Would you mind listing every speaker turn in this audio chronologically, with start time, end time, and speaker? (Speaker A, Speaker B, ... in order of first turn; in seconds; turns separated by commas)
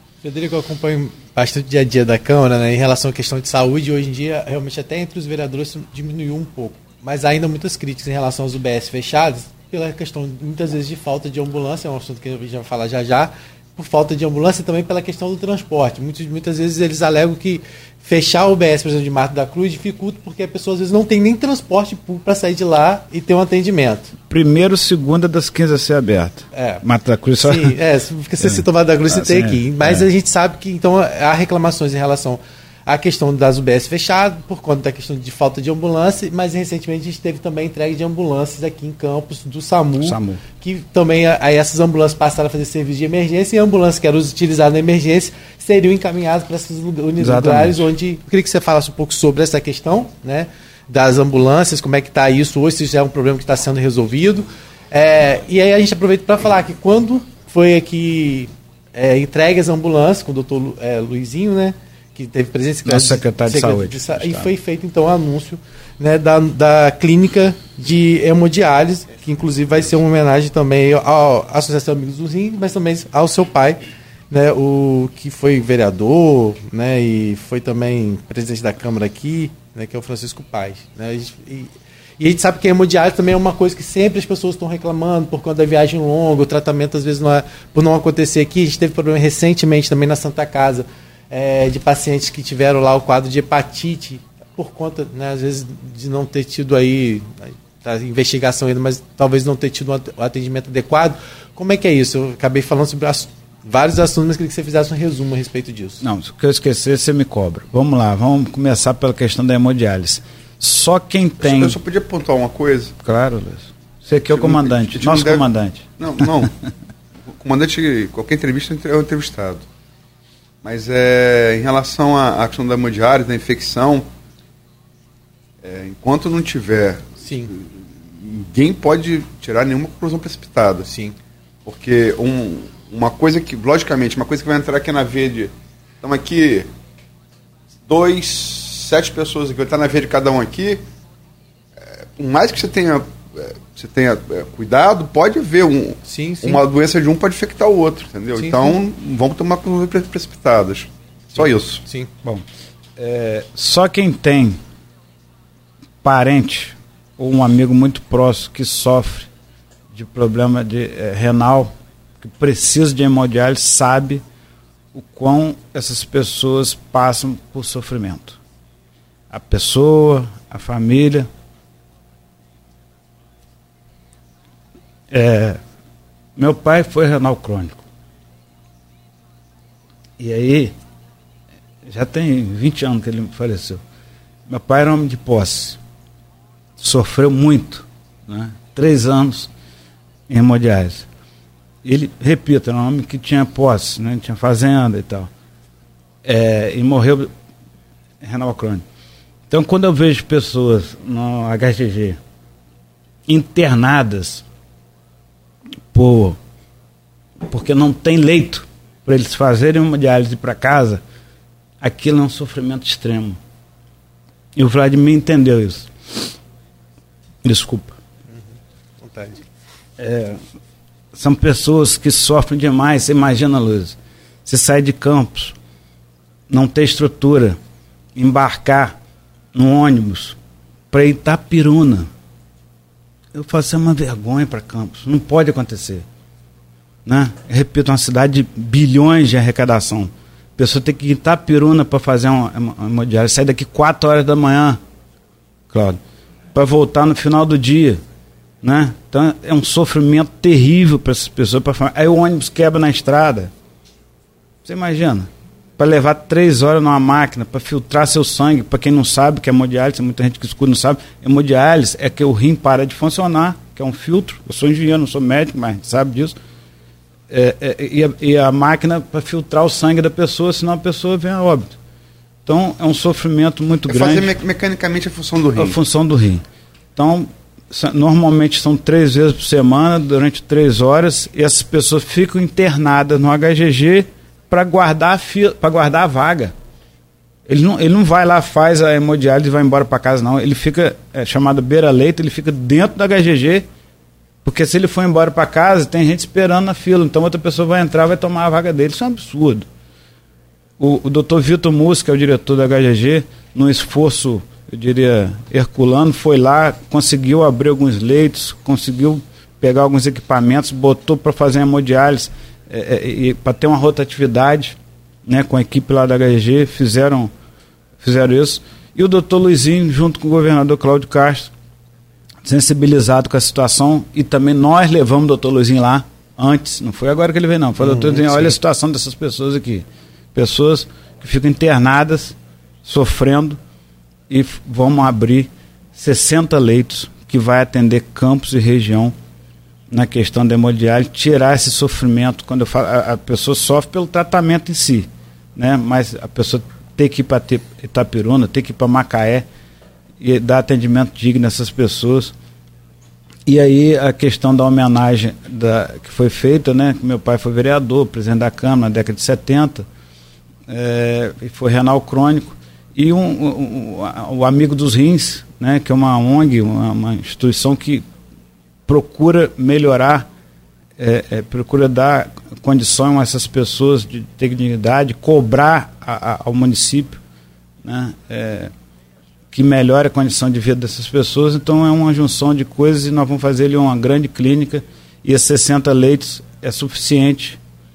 Speaker A: 0.2-24.1, Speaker B: 24.3-27.8, Speaker A: 26.5-26.8, Speaker A: 27.4-106.0, Speaker B: 28.4-30.1, Speaker B: 40.0-40.4, Speaker B: 47.2-47.9, Speaker B: 62.9-64.5, Speaker B: 106.0-111.8, Speaker C: 111.4-112.9, Speaker B: 113.0-116.5, Speaker C: 114.3-115.5, Speaker C: 116.0-116.5, Speaker C: 117.3-119.7, Speaker C: 120.6-124.1, Speaker C: 125.6-130.9, Speaker A: 127.2-127.5, Speaker A: 130.9-131.2, Speaker C: 131.7-136.7, Speaker C: 137.9-140.8, Speaker C: 141.8-151.8, Speaker A: 146.1-146.6, Speaker A: 148.4-148.7, Speaker A: 151.8-152.1, Speaker B: 153.0-154.6, Speaker B: 156.0-159.3, Speaker B: 159.9-164.2, Speaker B: 164.9-168.4, Speaker B: 169.3-171.3, Speaker B: 175.1-175.6, Speaker B: 176.4-177.8, Speaker B: 180.2-180.7, Speaker B: 181.9-183.8, Speaker B: 184.5-185.8, Speaker B: 186.8-189.5, Speaker B: 190.3-191.1, Speaker B: 191.8-195.3, Speaker B: 196.2-197.3, Speaker B: 198.2-198.8, Speaker B: 199.5-202.2, Speaker B: 203.3-204.4, Speaker B: 205.9-206.4, Speaker B: 207.5-211.0, Speaker B: 211.8-213.4, Speaker B: 214.6-215.9, Speaker B: 217.4-217.9, Speaker A: 219.0-219.4, Speaker B: 220.0-220.4, Speaker B: 221.1-225.6, Speaker B: 226.5-227.6, Speaker B: 228.2-228.9, Speaker B: 229.5-230.4, Speaker B: 230.9-232.1, Speaker B: 233.3-236.1, Speaker B: 237.1-244.8, Speaker B: 245.7-246.0, Speaker B: 246.5-248.0, Speaker B: 248.6-253.5, Speaker B: 254.7-266.4, Speaker B: 267.3-271.7, Speaker B: 272.5-274.3, Speaker C: 273.9-275.8, Speaker B: 275.6-276.4, Speaker B: 276.9-286.5, Speaker B: 287.5-293.7, Speaker B: 294.4-299.7, Speaker B: 300.8-317.3, Speaker B: 318.0-321.5, Speaker B: 322.4-333.6, Speaker A: 327.8-328.6, Speaker B: 334.3-339.1, Speaker B: 339.9-349.5, Speaker B: 350.2-352.3, Speaker B: 353.5-359.9, Speaker B: 360.7-368.0, Speaker B: 368.9-370.3, Speaker B: 371.0-377.2, Speaker B: 377.8-378.7, Speaker B: 379.5-387.6